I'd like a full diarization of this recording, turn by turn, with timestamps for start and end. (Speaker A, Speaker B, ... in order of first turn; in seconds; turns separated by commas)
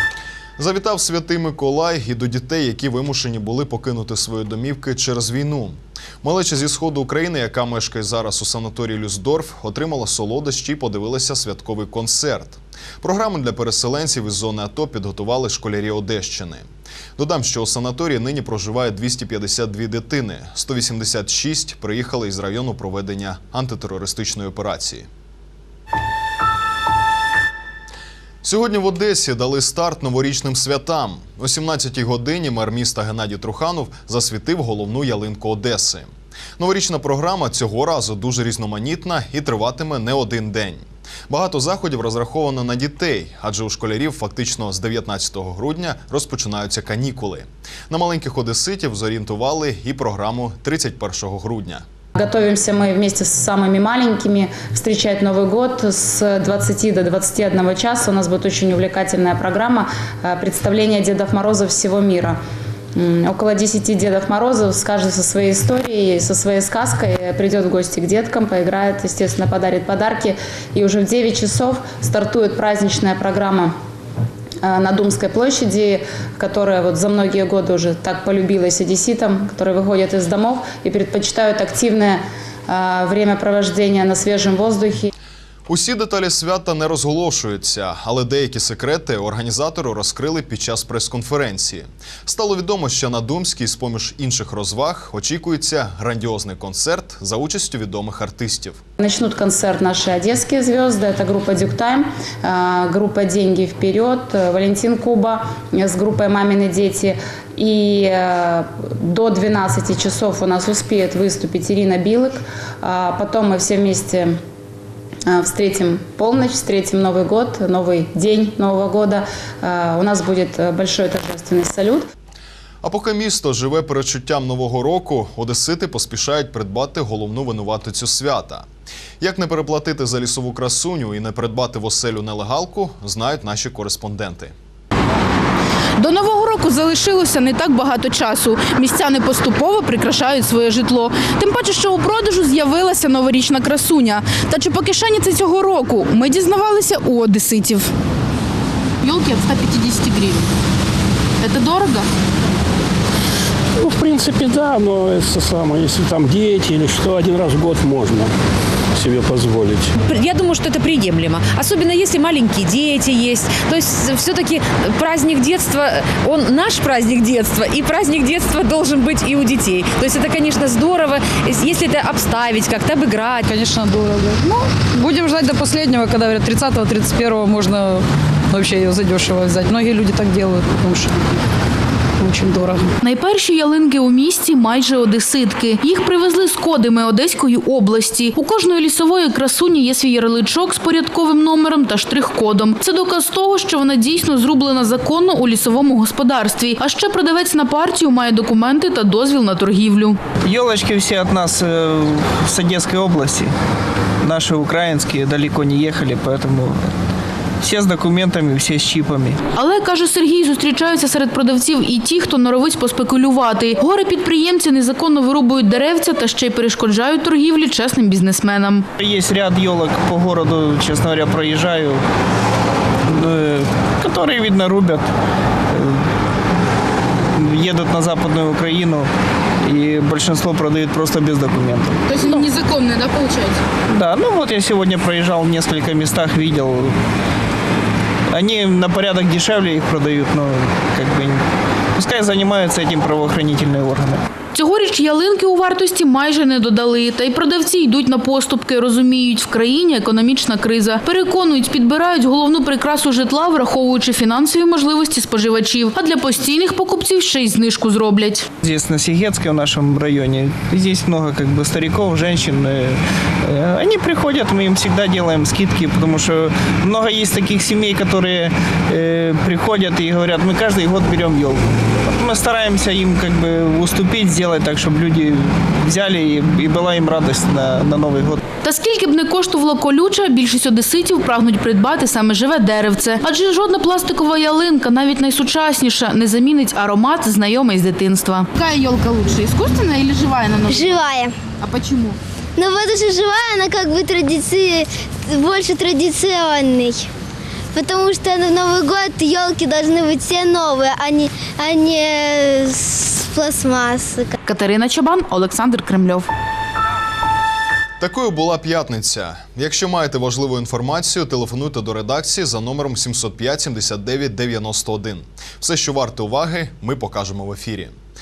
Speaker A: 0.6-25.1, Speaker A: 28.4-51.8, Speaker B: 52.1-62.4, Speaker B: 63.0-73.7, Speaker B: 74.6-85.1, Speaker A: 85.7-98.8, Speaker B: 99.0-114.3, Speaker B: 115.3-122.0, Speaker A: 122.8-128.7, Speaker A: 129.2-134.5, Speaker C: 136.0-147.9, Speaker C: 149.0-150.5, Speaker C: 151.4-152.1, Speaker D: 153.8-158.3, Speaker D: 159.0-159.9, Speaker E: 160.1-173.5, Speaker F: 173.5-181.1, Speaker F: 182.2-182.9, Speaker C: 183.0-200.2, Speaker G: 200.6-203.5, Speaker G: 204.3-206.7, Speaker G: 207.6-209.3, Speaker C: 209.5-218.9, Speaker G: 219.1-221.9, Speaker G: 224.0-225.0, Speaker G: 227.5-229.0, Speaker G: 229.7-231.9, Speaker C: 232.1-233.6, Speaker G: 234.0-236.8, Speaker G: 238.3-241.2, Speaker G: 242.0-244.1, Speaker C: 244.5-258.4, Speaker G: 258.9-262.8, Speaker G: 263.6-271.4, Speaker G: 272.2-275.2, Speaker G: 275.9-278.2, Speaker C: 278.6-291.1, Speaker H: 290.7-291.3, Speaker C: 291.6-292.2, Speaker H: 292.6-296.9, Speaker H: 297.8-304.2, Speaker C: 304.4-306.3, Speaker A: 308.0-318.0